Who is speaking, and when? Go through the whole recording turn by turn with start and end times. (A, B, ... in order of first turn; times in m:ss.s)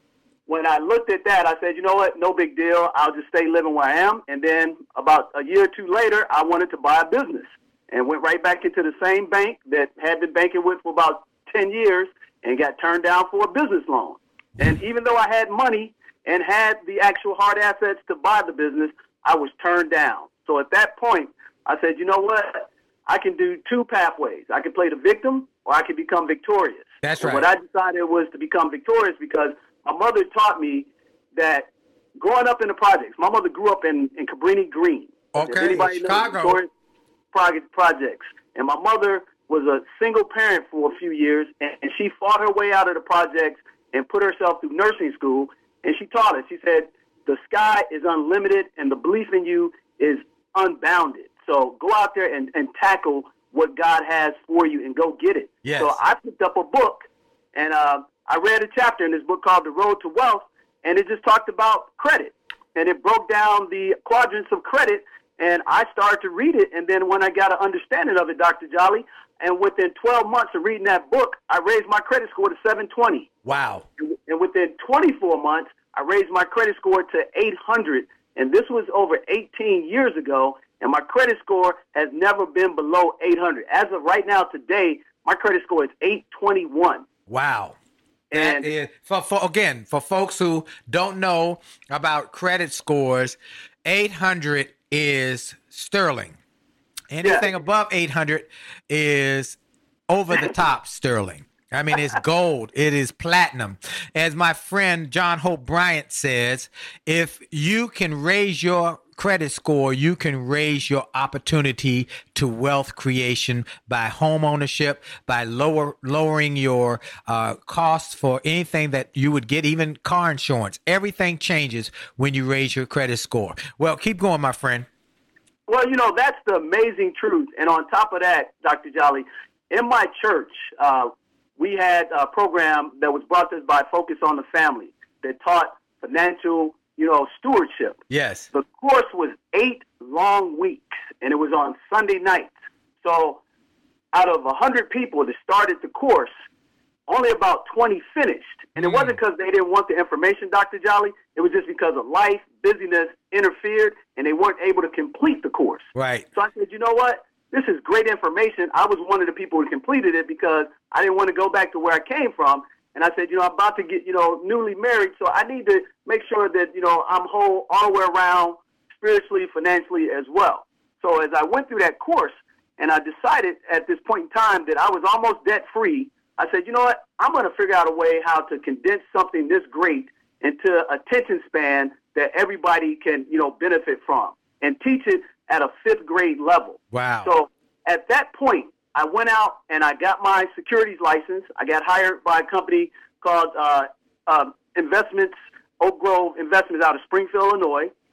0:00.5-0:36.7 A
0:27.0-0:27.5 B
0:35.3-0:36.6 B
0:37.3-1:13.3 A
0:55.6-0:56.0 B
1:13.4-1:13.8 B
1:14.0-1:27.0 A
1:27.3-1:27.8 B
1:28.3-1:28.7 A
1:28.3-1:36.4 B
1:37.1-1:39.6 B
1:37.2-1:37.5 A
1:40.1-2:04.9 B
2:05.7-2:18.0 A
2:18.1-2:18.5 B
2:18.5-2:22.5 A
2:23.0-2:23.4 A
2:24.1-2:26.3 A
2:27.1-3:17.9 A
2:28.8-2:29.2 B
2:36.0-2:36.3 B
3:06.9-3:07.3 B